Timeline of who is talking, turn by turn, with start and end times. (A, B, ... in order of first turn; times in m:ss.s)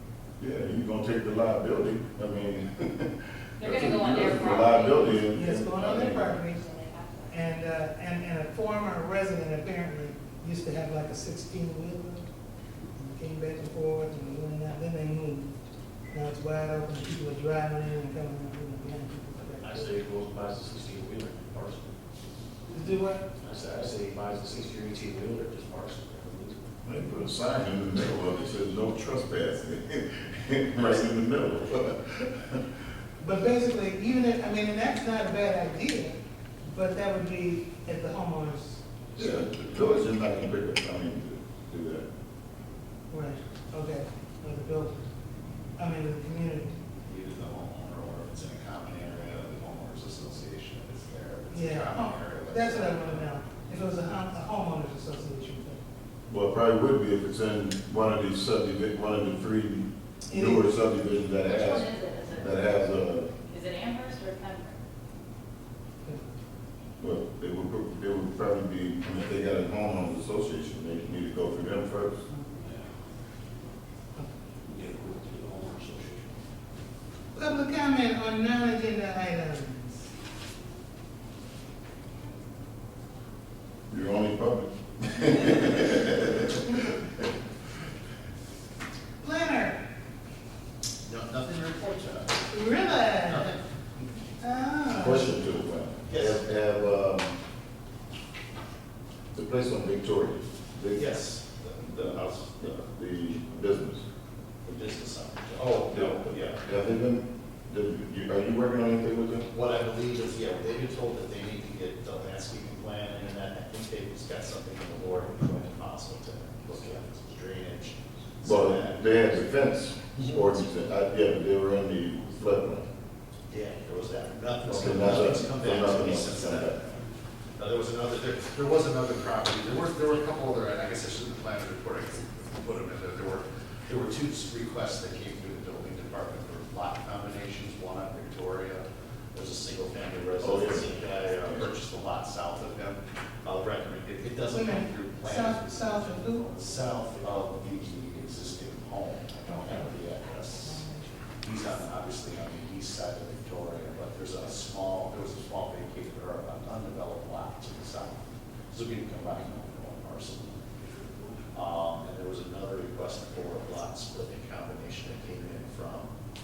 0:00.4-0:06.4 A
0:03.6-0:05.2 B
0:05.3-0:06.6 C
0:06.5-0:07.4 B
0:07.3-0:12.3 C
0:13.0-0:15.5 C
0:16.1-0:19.9 C
0:19.6-0:21.9 D
0:22.7-0:23.3 C
0:23.4-0:26.6 D
0:26.8-0:32.6 A
0:33.2-0:36.2 C
0:36.7-0:38.8 C
0:39.1-0:39.9 D
0:39.2-0:42.0 A
0:43.1-0:45.1 C
0:45.8-0:46.8 C
0:47.1-0:53.3 E
0:51.5-0:55.8 C
0:56.3-1:03.3 A
1:00.3-1:00.6 C
1:01.4-1:02.8 B
1:03.4-1:04.8 B
1:07.0-1:12.2 A
1:12.6-1:12.9 D
1:14.6-1:16.3 D
1:17.4-1:20.1 C
1:23.9-1:27.2 A
1:29.2-1:29.8 C
1:31.0-1:32.5 E
1:32.5-1:33.5 C
1:33.2-1:33.6 E
1:34.4-1:35.4 C
1:34.9-1:37.3 A
1:36.1-1:36.4 E
1:39.3-1:41.1 A
1:40.9-1:42.6 E
1:41.8-1:44.0 A
1:44.6-1:46.7 E
1:45.9-1:49.5 A
1:49.5-1:59.4 E
1:58.4-2:02.9 A
2:03.5-2:07.0 E
2:04.7-2:06.8 A
2:07.6-2:30.8 E
2:20.4-2:20.9 A
2:24.5-2:26.5 C
2:30.7-2:31.0 B
2:31.4-2:40.6 E
2:41.5-2:46.1 E